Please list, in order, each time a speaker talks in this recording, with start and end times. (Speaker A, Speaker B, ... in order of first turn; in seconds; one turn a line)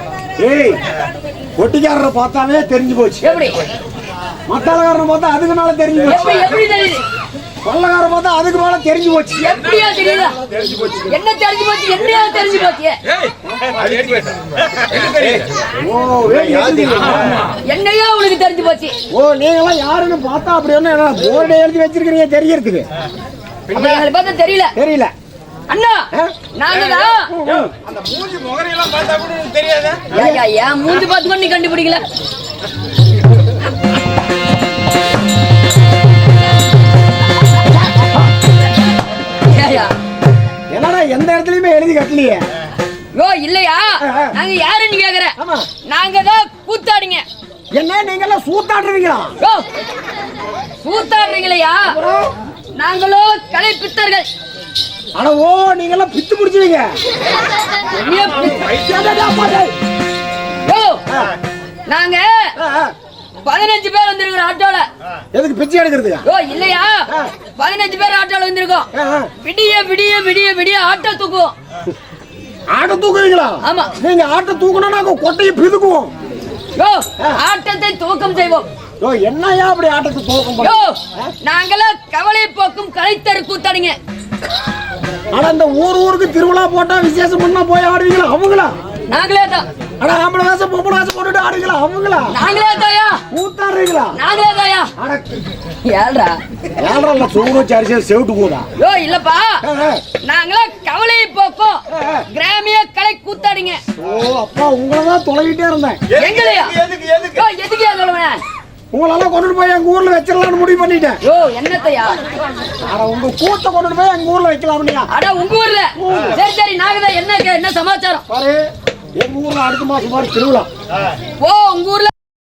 Speaker A: 0.4-0.8
Speaker A: 1.6-3.2
Speaker B: 3.2-3.6
Speaker A: 4.5-6.5
Speaker B: 6.0-7.0
Speaker A: 7.6-9.8
Speaker B: 9.4-10.4
Speaker A: 10.4-10.9
Speaker C: 10.5-11.1
Speaker B: 11.1-13.0
Speaker C: 13.1-15.7
Speaker A: 15.8-17.4
Speaker C: 16.2-17.6
Speaker B: 17.6-18.9
Speaker A: 19.1-22.9
Speaker B: 23.7-24.7
Speaker C: 23.7-24.0
Speaker A: 24.8-25.1
Speaker B: 25.7-27.3
Speaker C: 26.8-30.1
Speaker A: 27.3-27.7
Speaker A: 30.1-30.4
Speaker B: 30.1-32.0
Speaker B: 39.4-39.9
Speaker A: 40.7-42.5
Speaker B: 43.1-45.4
Speaker A: 44.0-44.3
Speaker A: 45.4-45.7
Speaker B: 45.9-47.2
Speaker A: 47.7-49.3
Speaker B: 49.4-49.6
Speaker B: 50.8-52.0
Speaker A: 51.8-52.3
Speaker B: 52.8-54.3
Speaker A: 55.1-56.9
Speaker B: 57.8-58.7
Speaker C: 58.1-59.3
Speaker A: 58.7-59.7
Speaker B: 60.6-61.0
Speaker A: 61.1-61.3
Speaker B: 61.9-62.5
Speaker A: 62.5-62.9
Speaker B: 63.4-64.9
Speaker A: 65.3-66.2
Speaker B: 66.2-68.9
Speaker A: 68.9-69.3
Speaker B: 69.4-71.5
Speaker A: 72.7-76.1
Speaker B: 73.6-73.9
Speaker B: 76.8-78.7
Speaker A: 79.0-81.3
Speaker B: 80.6-84.0
Speaker A: 85.3-88.7
Speaker B: 89.1-89.7
Speaker A: 90.0-92.4
Speaker B: 92.3-93.2
Speaker A: 93.3-94.2
Speaker B: 94.1-94.9
Speaker A: 95.0-95.4
Speaker B: 95.8-96.4
Speaker A: 96.8-98.7
Speaker B: 98.8-99.6
Speaker A: 99.6-100.0
Speaker B: 100.2-103.8
Speaker A: 101.9-102.2
Speaker A: 104.0-106.0
Speaker C: 106.1-107.4
Speaker B: 106.2-106.8
Speaker B: 107.3-108.4
Speaker A: 108.9-111.2
Speaker B: 111.2-112.2
Speaker A: 112.8-115.1
Speaker B: 115.1-118.2
Speaker A: 116.0-116.4
Speaker A: 118.3-118.7
Speaker A: 119.2-120.7
Speaker B: 121.4-122.1